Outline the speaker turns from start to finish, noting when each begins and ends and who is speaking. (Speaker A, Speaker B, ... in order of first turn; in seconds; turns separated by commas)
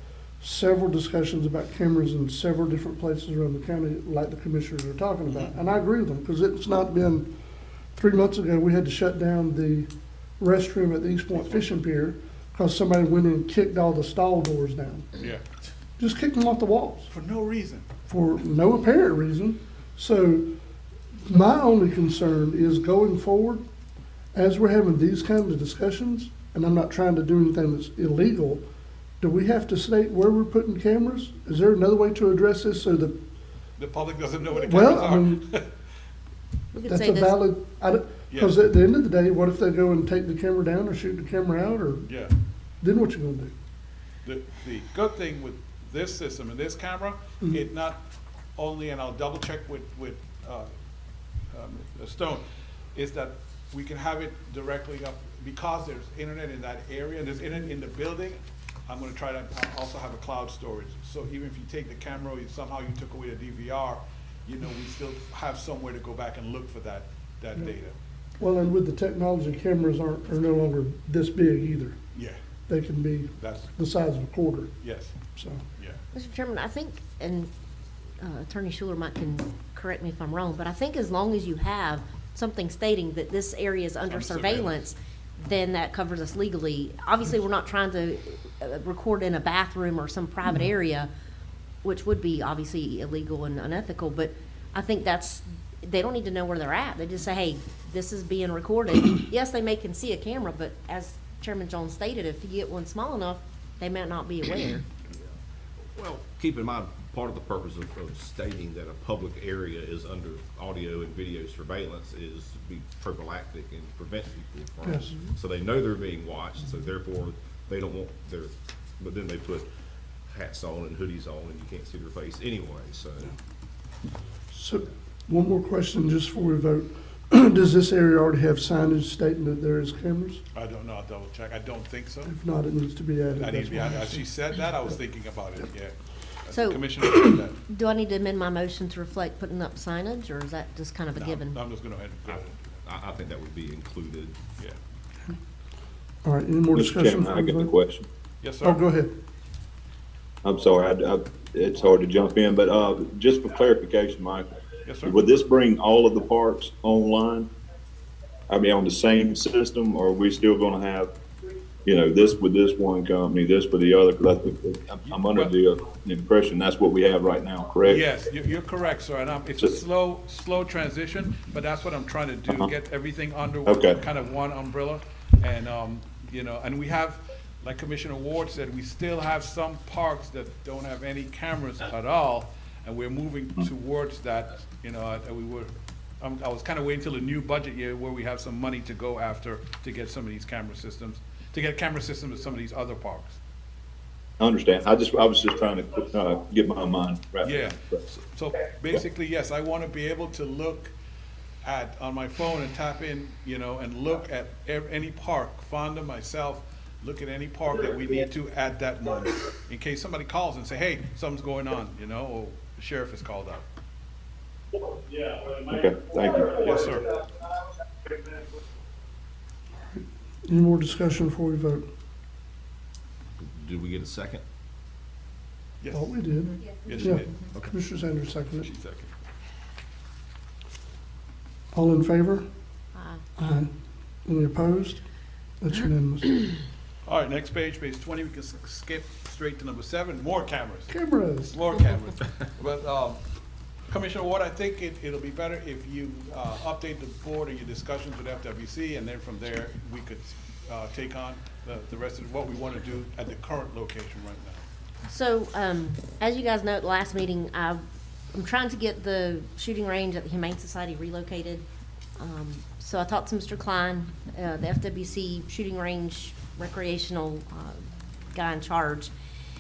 Speaker A: 0.4-7.3, Speaker B: 5.3-5.5, Speaker A: 8.0-15.1, Speaker B: 11.3-11.7, Speaker B: 15.2-15.5, Speaker A: 16.0-17.1, Speaker B: 17.1-17.9, Speaker A: 18.1-20.5, Speaker A: 21.2-23.6, Speaker A: 24.3-28.6, Speaker A: 29.2-33.2, Speaker B: 33.8-35.7, Speaker A: 34.5-35.4, Speaker C: 36.7-37.4, Speaker A: 36.8-42.1, Speaker B: 42.1-42.3, Speaker A: 42.8-43.5, Speaker B: 44.2-48.0, Speaker B: 48.6-50.7, Speaker B: 51.5-52.4, Speaker B: 53.0-67.9, Speaker A: 68.4-72.0, Speaker A: 72.7-74.7, Speaker B: 73.4-73.7, Speaker B: 74.8-75.1, Speaker A: 75.3-75.6, Speaker C: 76.1-77.5, Speaker C: 78.2-91.1, Speaker B: 84.1-84.8, Speaker C: 91.8-104.8, Speaker D: 105.1-119.7, Speaker A: 114.8-115.1, Speaker D: 120.3-123.3, Speaker A: 124.5-130.4, Speaker B: 130.5-132.3, Speaker A: 132.2-134.2, Speaker B: 133.3-137.6, Speaker C: 136.5-137.1, Speaker C: 137.7-141.6, Speaker B: 141.1-142.6, Speaker D: 142.8-144.4, Speaker A: 146.2-147.7, Speaker E: 146.8-148.1, Speaker B: 148.4-148.8, Speaker A: 148.6-149.1, Speaker E: 150.4-154.5, Speaker B: 154.8-155.2, Speaker E: 155.0-157.5, Speaker E: 158.5-161.1, Speaker E: 161.8-168.0, Speaker B: 165.0-165.5, Speaker B: 167.8-193.4, Speaker E: 173.7-174.0, Speaker E: 194.4-198.0, Speaker B: 197.4-200.9, Speaker B: 201.6-213.6, Speaker E: 215.5-216.7, Speaker B: 216.6-217.1, Speaker A: 220.4-221.8, Speaker D: 223.4-224.4, Speaker B: 225.8-226.1, Speaker A: 225.9-228.7, Speaker C: 226.4-226.8, Speaker B: 226.8-227.3, Speaker D: 227.0-227.8, Speaker B: 228.6-229.1, Speaker A: 231.7-232.4, Speaker C: 232.9-233.2, Speaker A: 233.4-233.7, Speaker A: 234.2-235.0, Speaker A: 235.6-236.3, Speaker B: 237.0-240.9, Speaker A: 240.9-241.6, Speaker B: 241.5-243.2, Speaker B: 243.9-254.6, Speaker C: 255.1-257.8, Speaker C: 258.3-261.6, Speaker C: 262.2-267.8, Speaker C: 268.3-269.1